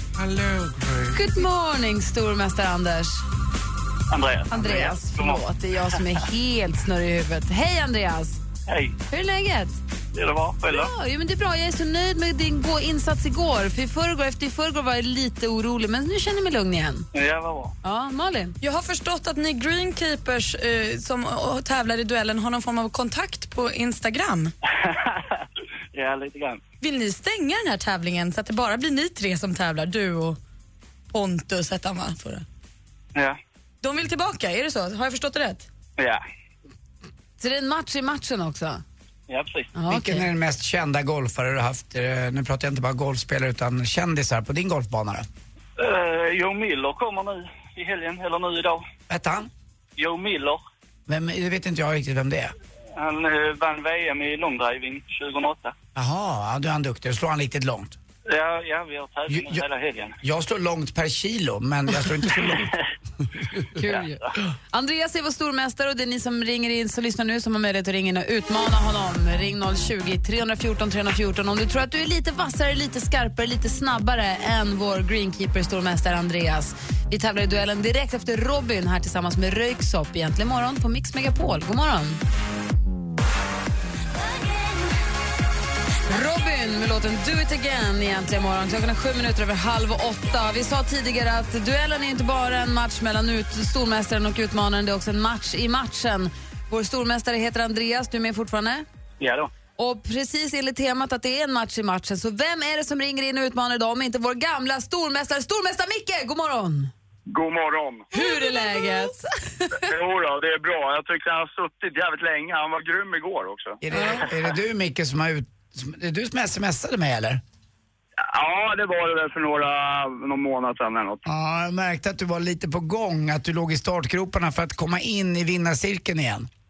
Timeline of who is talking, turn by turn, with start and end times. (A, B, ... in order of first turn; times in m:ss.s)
0:01.1-0:03.2 A
0:04.1-0:05.4 B
0:04.5-0:08.4 A
0:08.7-0:09.0 B
0:09.1-0:09.8 A
0:10.1-0:10.9 B
0:10.7-0:17.1 A
0:17.1-0:17.7 B
0:17.8-0:18.6 A
0:18.6-0:24.5 C
0:24.8-0:26.6 B
0:26.8-0:30.4 C
0:31.1-0:32.4 C
0:33.8-0:35.7 C
0:36.0-0:36.2 B
0:37.4-0:38.8 A
0:39.3-0:39.7 B
0:39.8-0:40.3 A
0:39.9-0:45.3 D
0:45.8-0:48.8 B
0:49.1-0:49.5 D
0:50.0-0:50.6 B
0:51.1-0:52.5 D
0:53.0-0:55.7 B
0:56.0-0:58.0 D
0:58.3-1:00.2 B
0:59.3-0:59.6 D
1:00.2-1:02.7 D
1:02.6-1:02.9 B
1:03.8-1:22.2 A
1:03.8-1:04.2 B
1:26.1-1:38.9 A
1:39.2-1:39.5 B
1:39.8-1:46.9 A
1:47.3-1:48.1 E
1:48.1-1:49.8 A
1:49.8-1:53.8 E
1:53.8-1:57.4 D
1:53.9-1:54.2 A
1:58.2-2:01.2 E
2:01.2-2:06.5 D